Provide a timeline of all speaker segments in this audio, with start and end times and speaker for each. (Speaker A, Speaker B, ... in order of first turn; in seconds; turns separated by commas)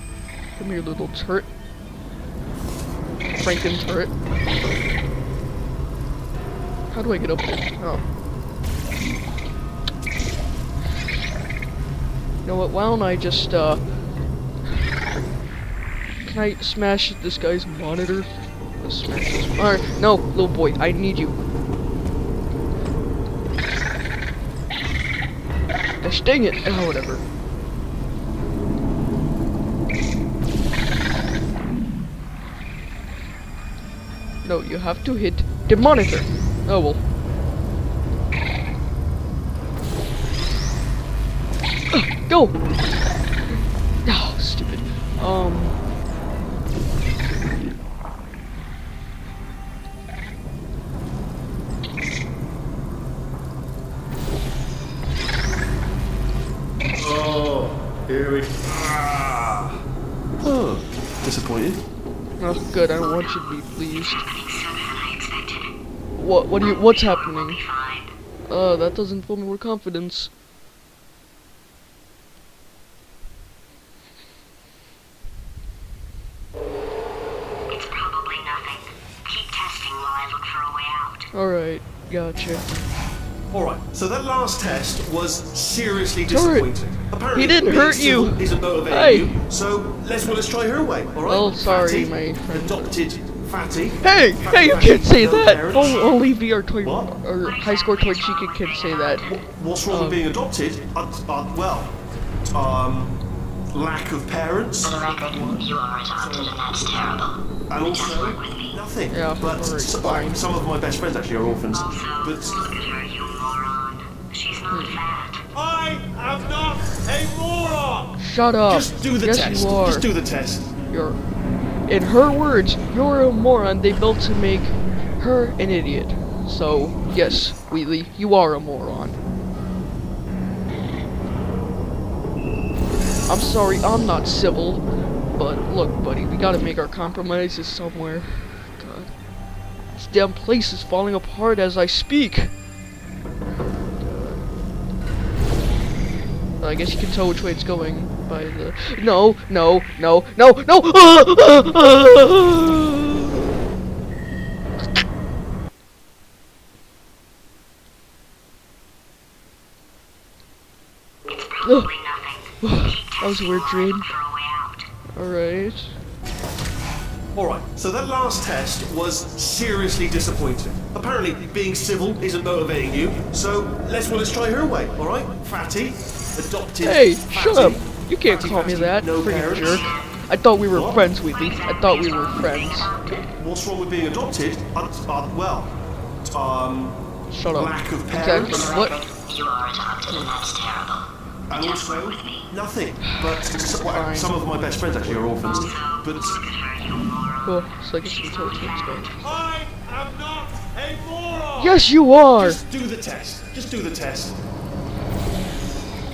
Speaker A: 0.6-1.5, Speaker A: 3.3-4.1, Speaker A: 6.9-8.0, Speaker A: 12.4-14.0, Speaker A: 16.2-21.4, Speaker A: 26.0-27.2, Speaker A: 34.4-37.0, Speaker A: 41.9-42.6, Speaker A: 44.0-45.8, Speaker B: 56.9-59.8, Speaker B: 60.4-61.8, Speaker A: 62.4-64.2, Speaker C: 63.0-65.7, Speaker A: 66.2-67.6, Speaker C: 66.6-68.1, Speaker A: 68.5-70.3, Speaker C: 77.7-81.3, Speaker A: 81.3-82.6, Speaker B: 83.5-96.2, Speaker A: 86.3-86.7, Speaker A: 87.3-89.3, Speaker A: 91.2-92.9, Speaker A: 94.0-99.3, Speaker B: 96.8-97.1, Speaker C: 97.4-99.4, Speaker B: 99.2-103.2, Speaker A: 99.9-100.2, Speaker B: 103.7-105.6, Speaker C: 104.8-108.8, Speaker B: 106.2-106.6, Speaker B: 107.7-112.5, Speaker A: 109.1-110.5, Speaker C: 111.7-115.4, Speaker A: 114.7-115.0, Speaker B: 115.5-120.7, Speaker A: 118.2-120.1, Speaker A: 120.9-121.2, Speaker A: 121.8-129.2, Speaker A: 133.3-139.2, Speaker A: 139.9-142.6, Speaker A: 144.0-144.5, Speaker A: 146.6-153.2, Speaker C: 161.3-164.9, Speaker A: 161.6-161.9, Speaker A: 162.6-164.1, Speaker A: 165.1-166.0, Speaker B: 167.3-179.9, Speaker A: 176.8-182.9, Speaker C: 179.6-180.2, Speaker B: 180.7-181.0, Speaker C: 181.2-183.3, Speaker B: 183.3-188.8, Speaker A: 187.3-189.0, Speaker C: 188.3-192.5, Speaker B: 191.5-196.4, Speaker A: 193.7-194.3, Speaker A: 195.0-195.7, Speaker C: 195.3-199.4, Speaker A: 197.4-199.2, Speaker B: 199.2-204.4, Speaker A: 201.6-202.6